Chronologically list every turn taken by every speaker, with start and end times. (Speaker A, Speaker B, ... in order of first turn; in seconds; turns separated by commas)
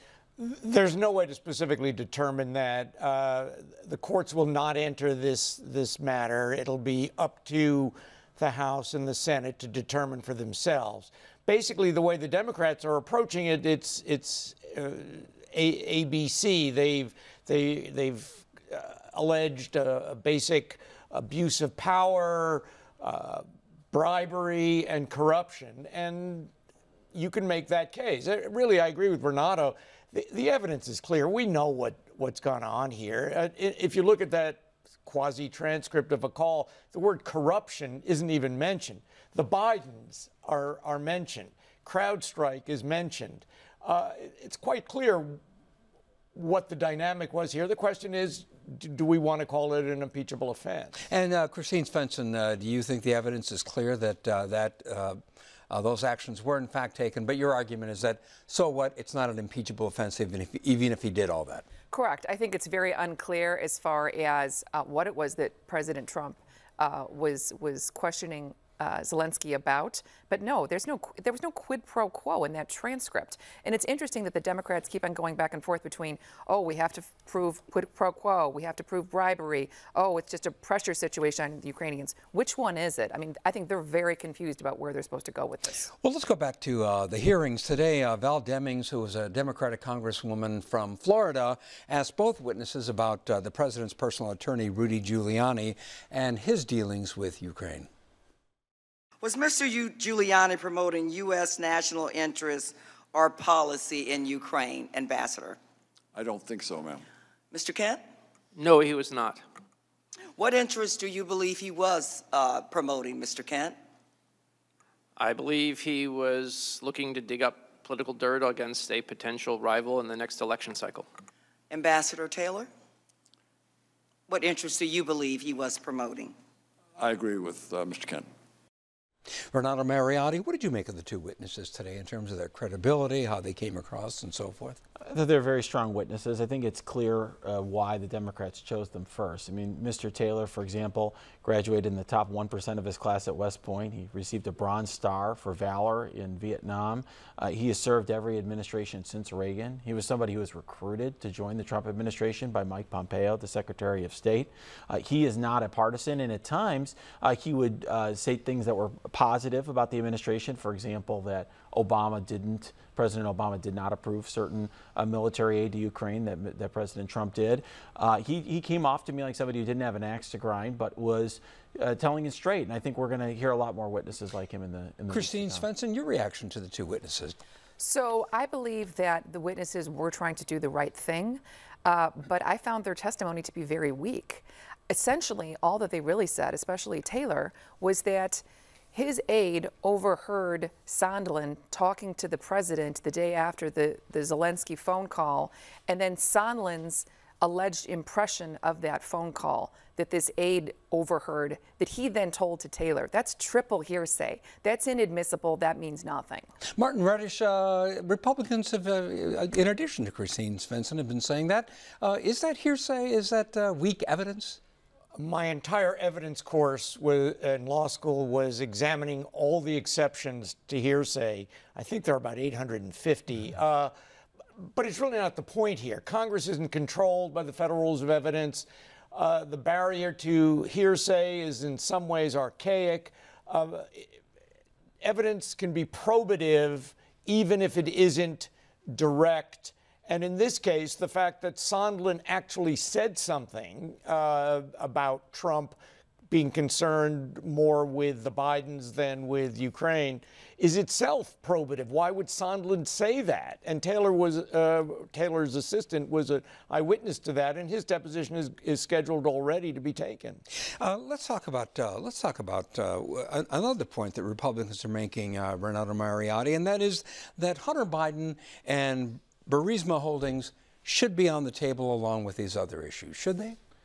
Speaker A: 0.4-26.5, Speaker A: 27.1-45.4, Speaker A: 46.4-51.0, Speaker B: 51.1-55.2, Speaker B: 55.7-61.7, Speaker C: 61.9-85.9, Speaker B: 86.0-97.9, Speaker D: 99.2-105.6, Speaker E: 106.1-107.0, Speaker D: 107.5-108.0, Speaker F: 108.5-109.5, Speaker D: 110.3-113.8, Speaker F: 115.2-121.1, Speaker D: 121.7-122.7, Speaker D: 124.3-126.3, Speaker E: 127.0-128.3, Speaker B: 129.5-134.8, Speaker G: 135.0-175.7, Speaker B: 175.1-177.4, Speaker C: 177.8-206.5, Speaker B: 206.8-214.6, Speaker A: 215.2-223.9, Speaker A: 224.6-234.2, Speaker A: 235.0-245.8, Speaker A: 246.3-260.4, Speaker B: 260.8-273.6